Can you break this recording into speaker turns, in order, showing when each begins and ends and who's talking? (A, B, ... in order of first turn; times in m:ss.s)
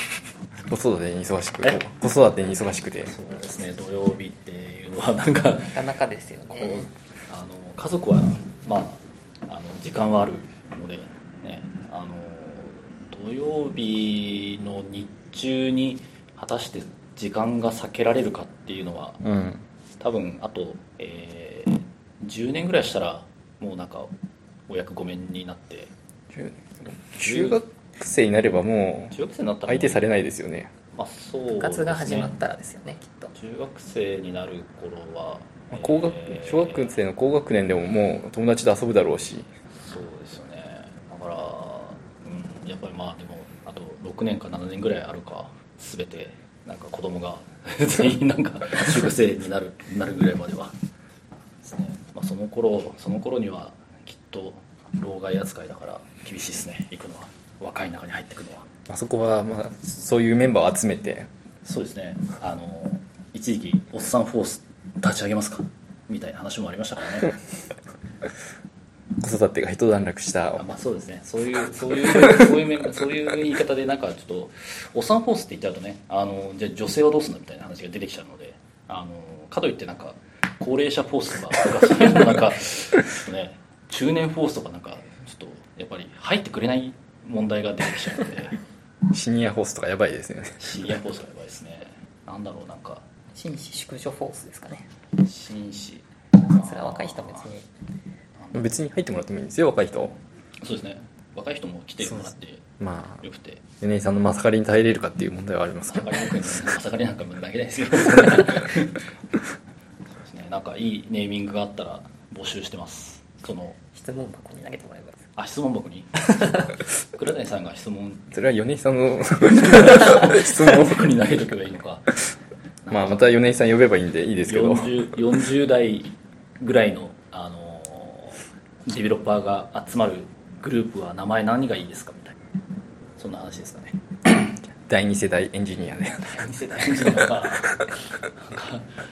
0:00.6-0:03.1 A
0:03.0-0:05.8 B
0:05.7-0:06.9 C
0:06.5-0:19.2 B
0:19.2-0:19.6 A
0:20.0-0:24.1 B
0:24.7-0:25.9 B
0:26.3-0:30.7 A
0:27.1-0:27.6 B
0:29.1-0:30.1 B
0:30.9-0:32.3 B
0:31.6-0:33.3 C
0:33.3-0:36.9 B
0:35.7-0:39.5 A
0:39.7-0:50.8 B
0:51.6-0:58.7 B
0:58.9-1:01.3 A
1:01.6-1:07.4 B
1:09.2-1:10.6 A
1:10.6-1:28.6 B
1:29.1-1:30.7 A
1:30.6-1:33.0 B
1:33.3-1:34.9 C
1:35.2-1:37.5 B
1:36.4-1:37.6 C
1:38.4-1:38.7 B
1:38.5-1:40.2 A
1:40.6-1:42.6 B
1:42.0-1:43.2 A
1:43.2-1:43.6 B
1:43.8-1:46.3 A
1:45.9-1:49.1 B
1:50.1-1:53.8 B
1:53.9-1:55.2 C
1:55.4-1:58.3 B
1:56.2-1:56.7 C
1:58.3-2:01.0 A
1:59.4-2:02.1 B
2:02.8-2:03.3 B
2:02.9-2:05.1 A
2:04.5-2:12.4 B
2:13.2-2:14.0 B
2:14.8-2:16.4 A
2:16.2-2:17.7 B
2:18.3-2:18.9 B